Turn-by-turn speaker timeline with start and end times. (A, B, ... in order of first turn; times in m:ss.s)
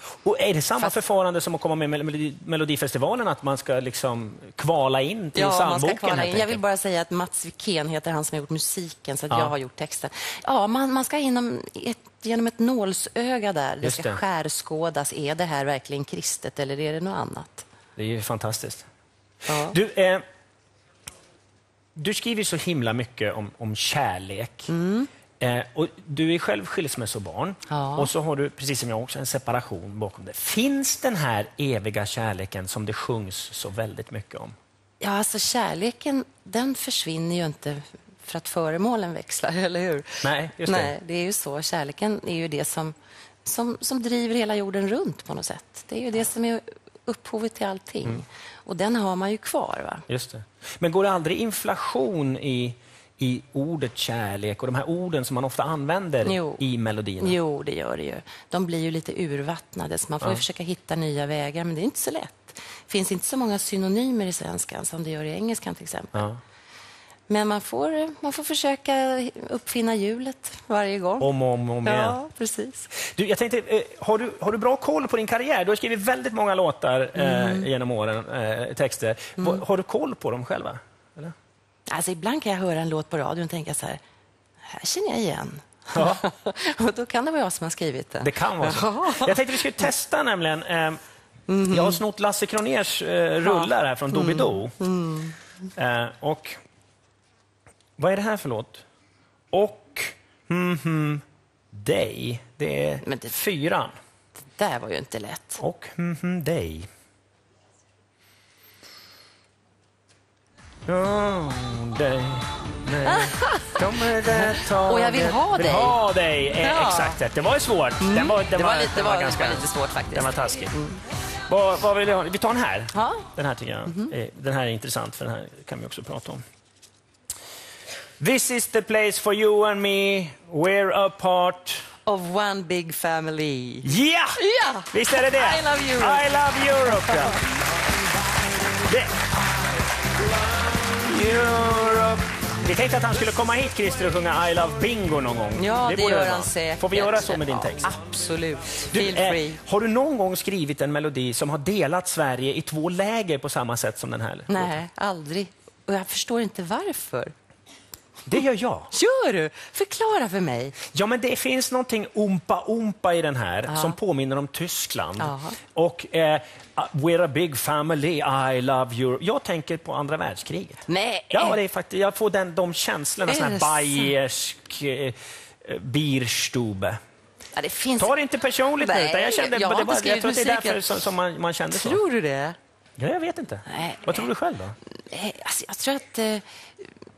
0:00.2-0:06.6 A
0:05.4-0:17.7 B
0:09.3-0:09.6 A
0:13.8-0:14.2 A
0:18.0-0:18.9 A
0:19.5-0:19.8 B
0:19.6-0:20.2 A
0:22.0-0:24.7 A
0:24.7-0:25.1 B
0:25.4-0:34.6 A
0:27.7-0:28.1 B
0:35.0-0:50.0 B
0:40.2-0:41.0 A
0:50.1-0:57.4 A
0:56.2-0:56.6 B
0:57.2-1:06.3 B
1:07.3-1:11.3 B
1:11.2-1:12.2 A
1:11.8-1:12.9 B
1:13.0-1:21.4 A
1:17.2-1:17.7 B
1:21.9-1:24.0 B
1:24.7-1:29.9 B
1:25.9-1:26.2 A
1:28.2-1:31.0 A
1:31.5-1:32.0 B
1:31.7-1:34.8 A
1:33.4-1:35.4 B
1:35.8-1:36.6 A
1:38.0-1:38.8 A
1:39.5-1:43.9 A
1:43.0-1:43.4 B
1:44.6-1:45.6 B
1:45.6-1:46.9 A
1:50.9-2:00.7 A
1:53.1-1:56.0 B
1:56.6-1:57.2 B
1:58.0-2:01.0 B
2:01.5-2:06.4 A
2:02.9-2:03.3 B
2:08.2-2:11.8 A
2:12.1-2:13.9 B
2:13.8-2:17.4 A
2:14.4-2:17.3 B
2:21.0-2:27.9 A
2:25.6-2:29.6 B
2:28.9-2:34.8 A
2:34.5-2:37.3 B
2:38.3-2:38.9 A
2:38.9-2:40.8 B
2:40.9-2:50.8 A
2:43.7-2:44.0 B
2:45.2-2:45.6 B
2:50.9-2:51.6 B
2:51.3-2:57.0 A
2:53.3-2:54.1 B
2:57.5-2:58.2 B
2:58.0-3:02.0 A
2:58.8-3:01.0 B
3:01.7-3:02.6 B
3:03.0-3:04.8 A
3:03.7-3:04.3 B
3:05.1-3:06.9 B